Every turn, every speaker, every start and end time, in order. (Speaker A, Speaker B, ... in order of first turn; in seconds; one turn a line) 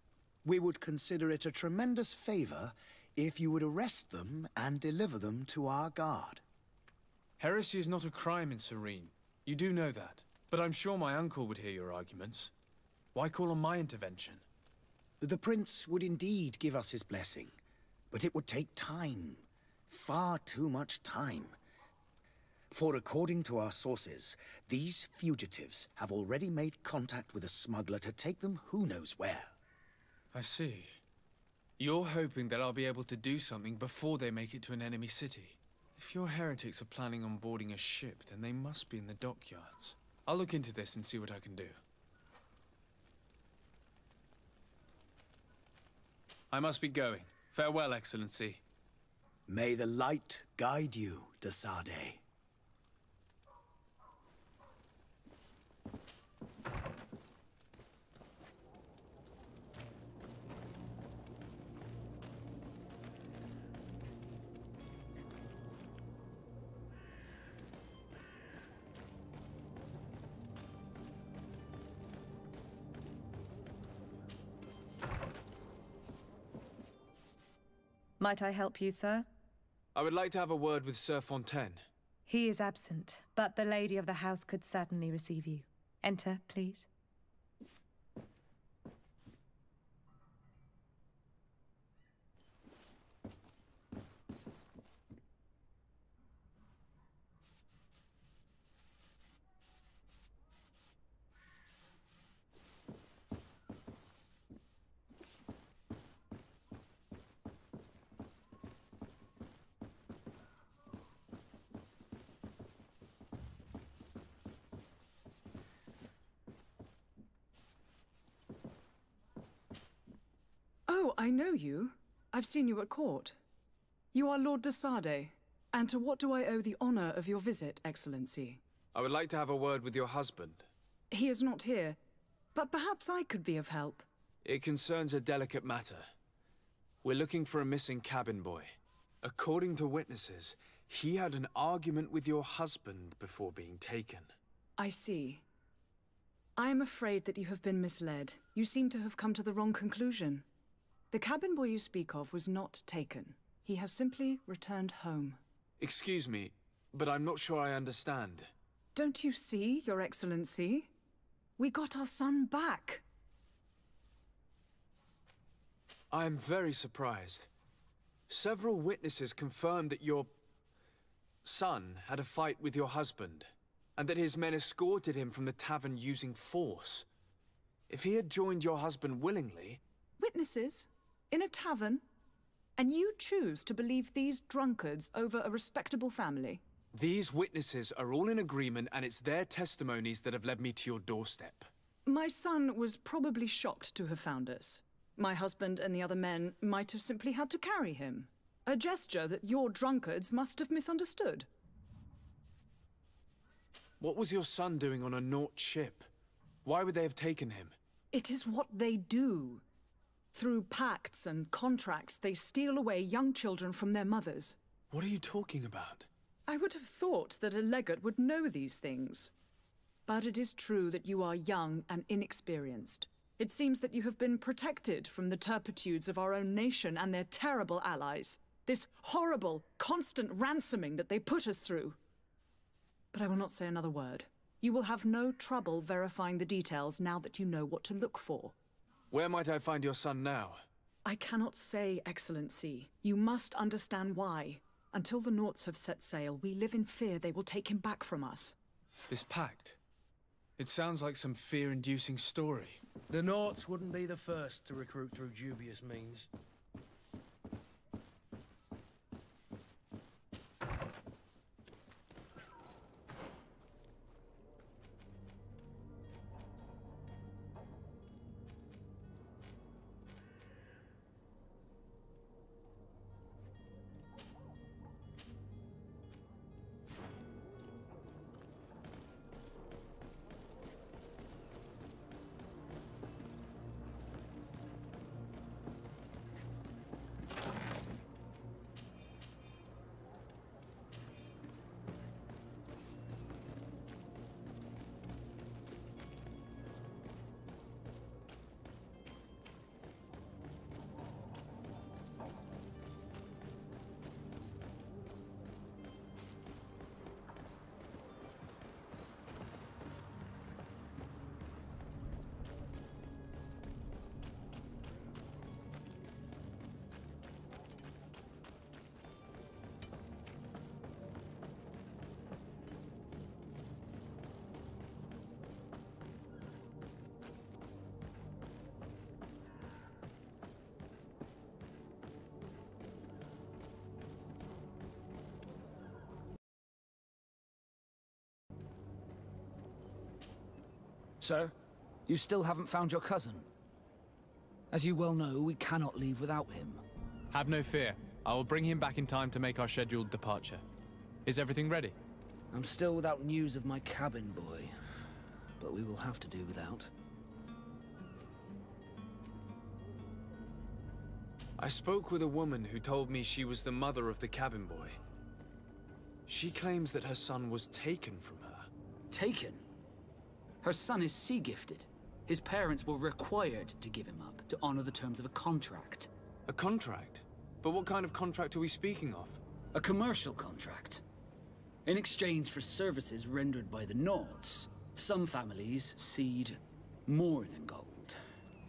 Speaker A: 0.4-6.4
Speaker B: 7.4-12.5
Speaker B: 13.1-14.4
Speaker A: 15.2-17.5
Speaker A: 18.1-21.6
Speaker A: 22.7-29.5
Speaker B: 30.3-31.0
Speaker B: 31.8-41.8
Speaker B: 46.5-48.6
Speaker A: 49.5-52.2
Speaker C: 78.2-79.3
Speaker B: 79.9-81.8
Speaker C: 82.3-86.8
Speaker D: 120.9-123.3
Speaker D: 124.1-128.6
Speaker B: 128.9-130.7
Speaker D: 131.1-132.0
Speaker D: 132.5-134.1
Speaker B: 134.4-136.0
Speaker B: 137.0-144.3
Speaker D: 144.8-145.4
Speaker D: 146.6-150.4
Speaker D: 151.1-155.4
Speaker B: 155.8-158.5
Speaker D: 158.9-160.9
Speaker D: 161.6-163.0
Speaker B: 166.1-167.5
Speaker B: 168.3-170.3
Speaker B: 171.4-177.1
Speaker B: 177.9-179.8
Speaker D: 180.2-182.0
Speaker D: 182.8-186.6
Speaker B: 186.9-191.7
Speaker D: 192.1-201.5
Speaker B: 204.0-206.1
Speaker B: 206.6-207.7
Speaker D: 208.1-209.6
Speaker D: 210.3-214.6
Speaker B: 214.9-216.1
Speaker D: 216.5-219.3
Speaker D: 220.1-232.0
Speaker D: 233.1-238.5
Speaker B: 239.1-240.6
Speaker D: 241.0-248.6
Speaker B: 249.1-249.8
Speaker B: 250.6-252.8
Speaker E: 253.1-256.3
Speaker F: 341.2-341.5
Speaker F: 342.1-343.5
Speaker F: 344.7-346.8
Speaker B: 347.3-350.6
Speaker B: 351.2-351.9
Speaker F: 352.5-356.9
Speaker B: 361.6-365.0
Speaker B: 366.3-368.7
Speaker F: 369.1-369.7
Speaker F: 370.6-376.1
Speaker B: 376.5-379.4
Speaker F: 379.7-381.0
Speaker F: 381.8-388.2